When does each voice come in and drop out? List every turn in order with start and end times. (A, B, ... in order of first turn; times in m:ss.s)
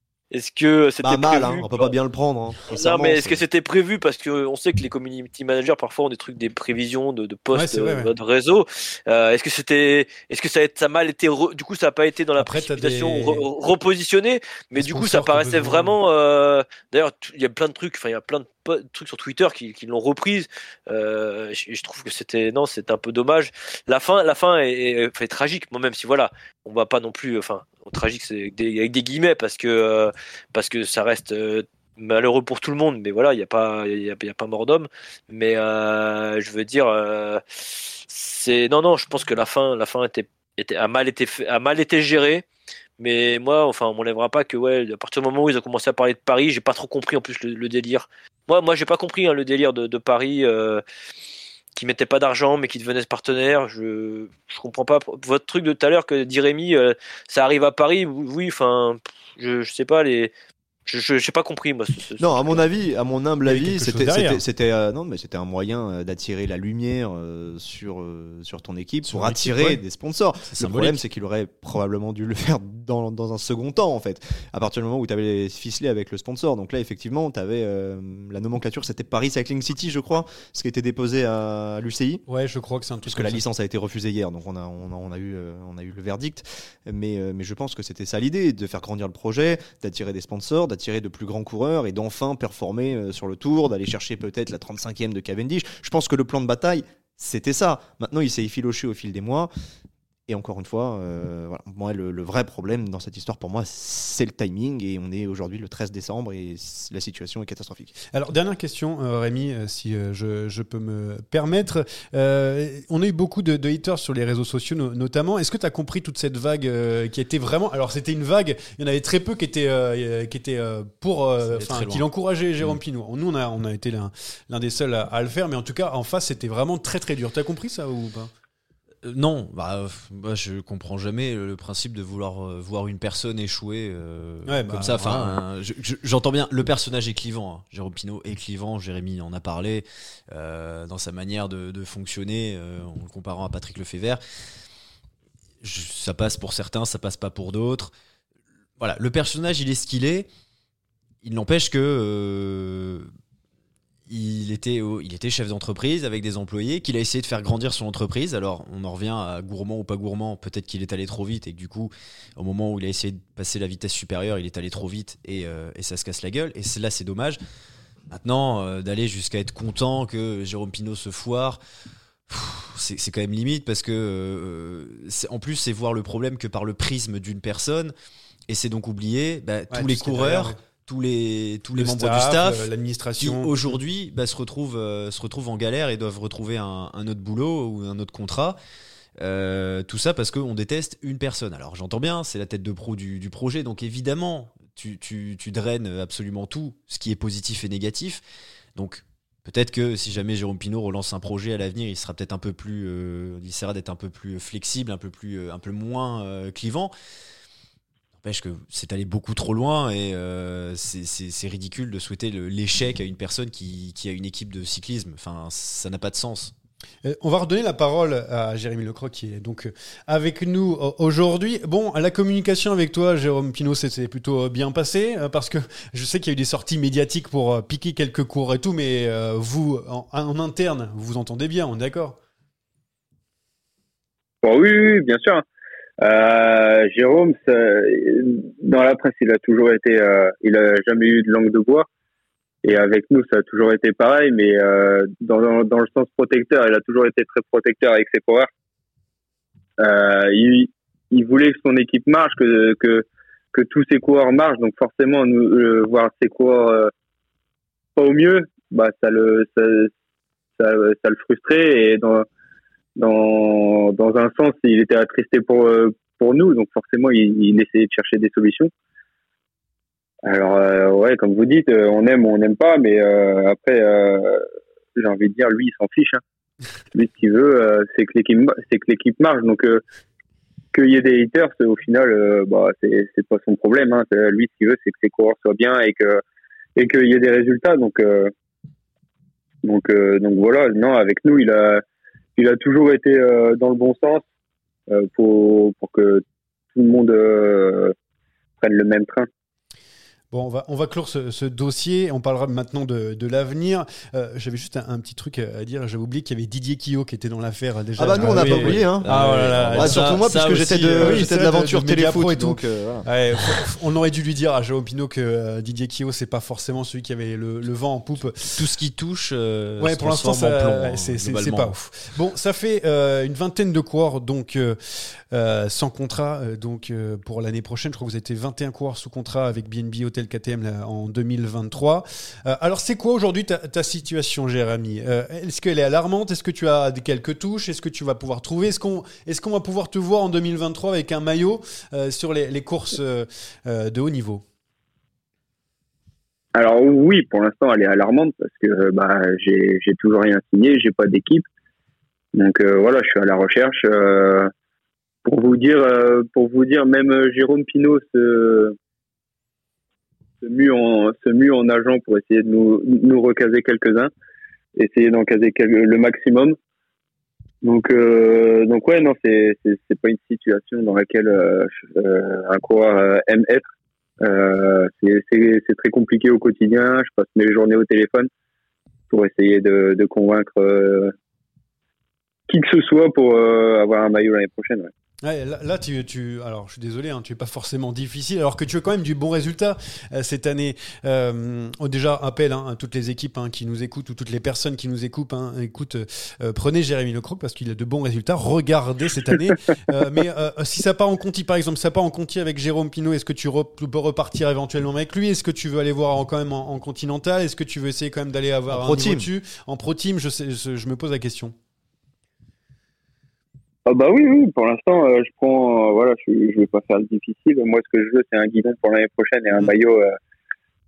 0:00.3-0:01.9 A
0:01.0-0:03.4 B
0:02.7-0:37.4 A
0:07.5-0:08.1 C
0:12.4-0:13.4 C
0:14.8-0:15.9 C
0:38.0-0:42.4 A
0:43.0-0:50.8 A
0:51.8-1:00.3 A
1:00.9-1:02.7 A
1:02.2-1:22.2 B
1:03.4-1:04.4 C
1:09.0-1:09.8 C
1:10.5-1:11.0 D
1:22.3-1:23.4 C
1:23.0-1:39.5 B
1:40.3-1:47.9 B
1:48.1-2:08.3 C
2:01.4-2:02.1 D
2:09.0-2:24.2 D
2:14.4-2:15.4 C
2:25.6-2:27.9 D
2:28.8-2:30.3 D
2:31.2-2:33.1 D
2:34.1-2:47.4 D
2:48.1-2:51.6 D
2:52.3-2:57.9 D
2:58.5-3:08.6 D
2:59.7-3:00.6 C
3:01.7-3:03.6 C
3:09.2-3:18.2 D
3:18.8-3:26.9 D
3:28.2-3:36.5 D
3:37.0-3:52.2 C
3:54.4-3:55.4 E
3:56.0-4:01.9 E
4:02.6-4:08.5 E
4:09.8-4:16.9 E
4:18.0-4:19.9 E
4:20.6-4:22.2 E
4:23.0-4:28.7 E
4:30.3-4:34.4 E
4:35.0-4:36.2 E
4:36.9-4:39.8 E
4:40.7-4:46.2 E
4:46.8-4:48.3 E
4:49.6-4:51.8 E
4:52.4-4:54.2 E
4:54.9-4:56.2 E
4:56.7-4:57.9 E
4:58.6-4:59.3 E
5:00.3-5:10.3 C
5:08.0-5:13.1 B
5:08.2-5:11.3 D
5:11.0-5:18.6 C
5:18.5-5:21.7 D
5:19.8-5:24.8 C
5:25.3-5:44.4 C
5:46.6-5:51.4 E
5:52.3-5:54.5 E
5:55.2-5:58.7 E
6:00.4-6:04.1 E
6:04.8-6:06.6 E
6:07.6-6:13.7 E
6:14.2-6:18.3 E
6:19.1-6:21.1 E
6:22.5-6:24.9 E
6:25.2-6:51.5 C
6:48.7-6:49.3 B
6:53.8-7:00.1 E